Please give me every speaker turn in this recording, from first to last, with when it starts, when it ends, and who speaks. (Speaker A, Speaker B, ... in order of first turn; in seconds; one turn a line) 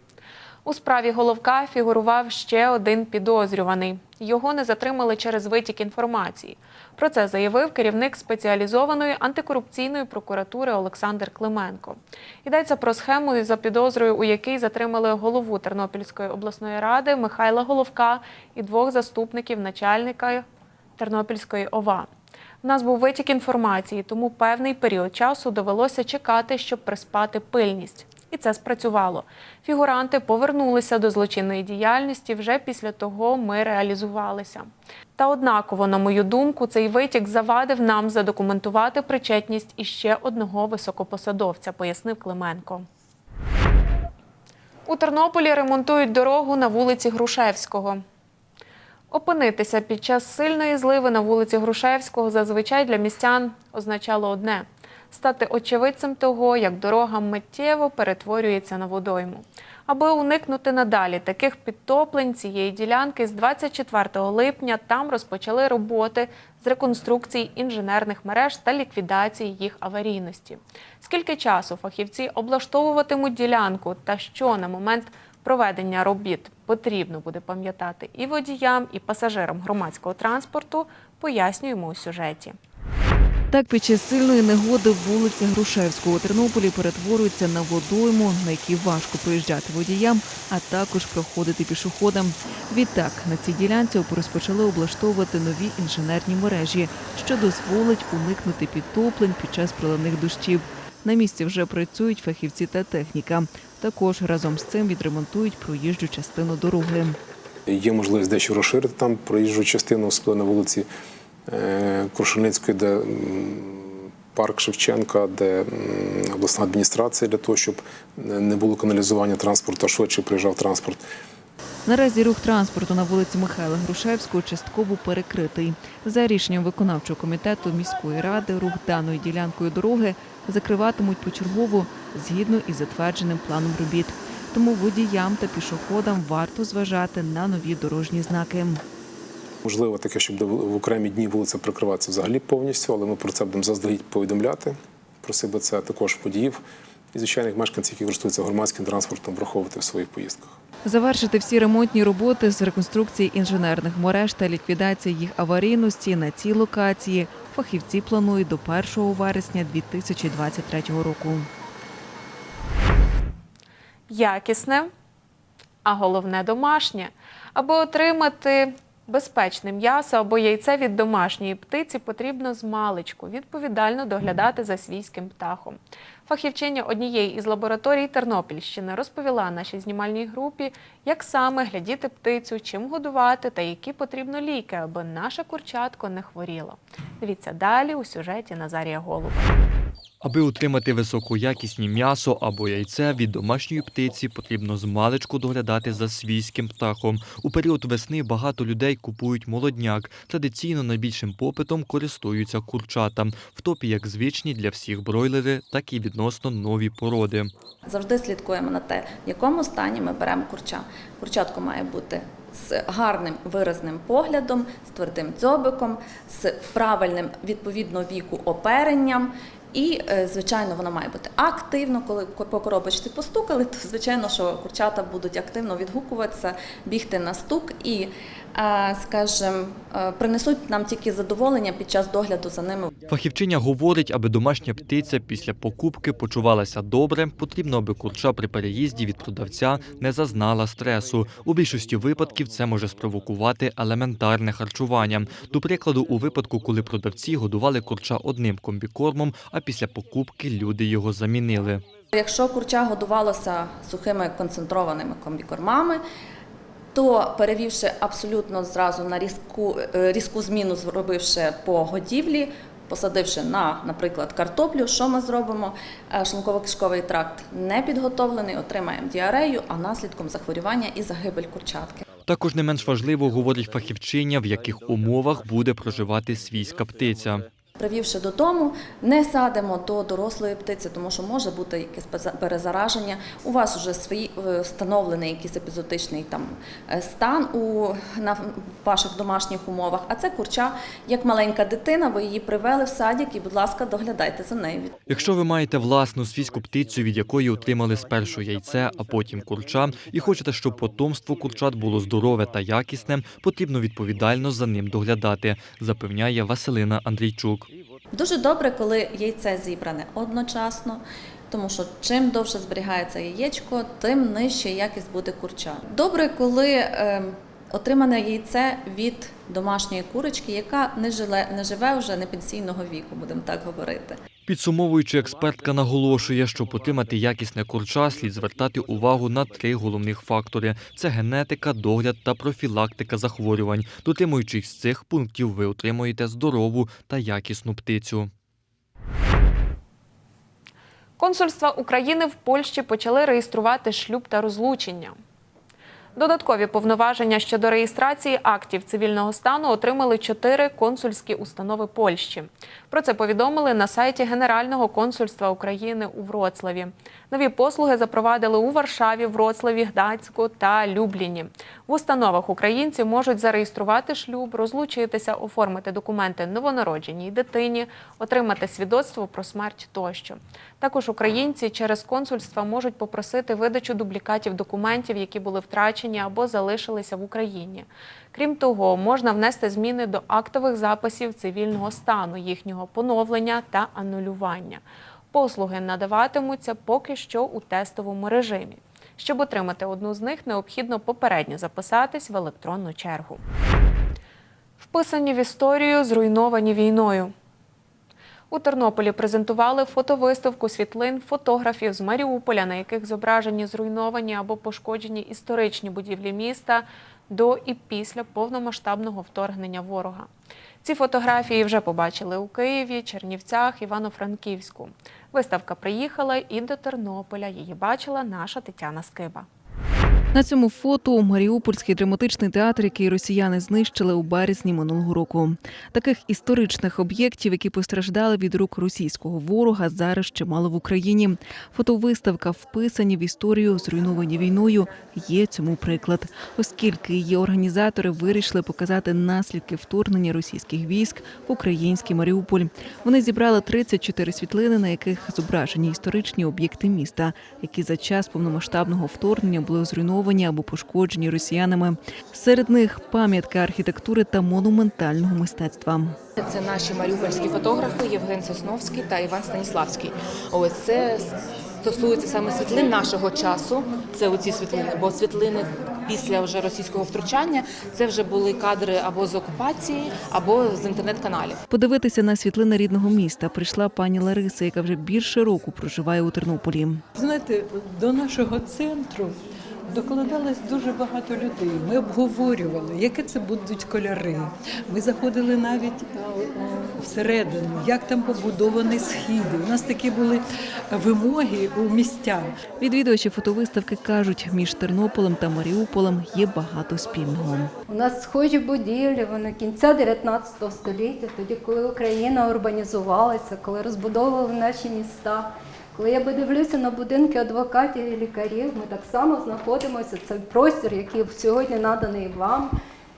Speaker A: 0.7-20.4
Speaker A: 21.0-22.1
Speaker A: 22.6-42.9
Speaker A: 44.9-48.0
Speaker A: 49.1-82.6
Speaker B: 83.5-107.2
Speaker C: 107.7-110.9
Speaker C: 111.5-121.0
Speaker B: 121.9-138.8
Speaker C: 139.7-146.6
Speaker C: 147.1-150.6
Speaker B: 150.8-161.5
Speaker A: 164.1-164.9
Speaker A: 165.8-189.5
Speaker D: 190.2-207.5
Speaker E: 207.9-232.9
Speaker D: 233.1-251.8
Speaker E: 252.1-256.0
Speaker E: 256.9-272.1
Speaker D: 272.2-277.5
Speaker E: 277.8-294.9
Speaker D: 295.1-307.7
Speaker E: 308.1-324.2
Speaker D: 324.5-338.3
Speaker A: 341.2-345.2
Speaker A: 346.2-393.4
Speaker A: 394.8-397.3
Speaker A: 398.5-410.3
Speaker A: 410.8-419.5
Speaker B: 420.3-456.2
Speaker F: 456.4-471.6
Speaker B: 471.7-477.0
Speaker G: 477.1-479.4
Speaker G: 479.9-492.5
Speaker B: 492.8-497.7
Speaker H: 497.9-512.7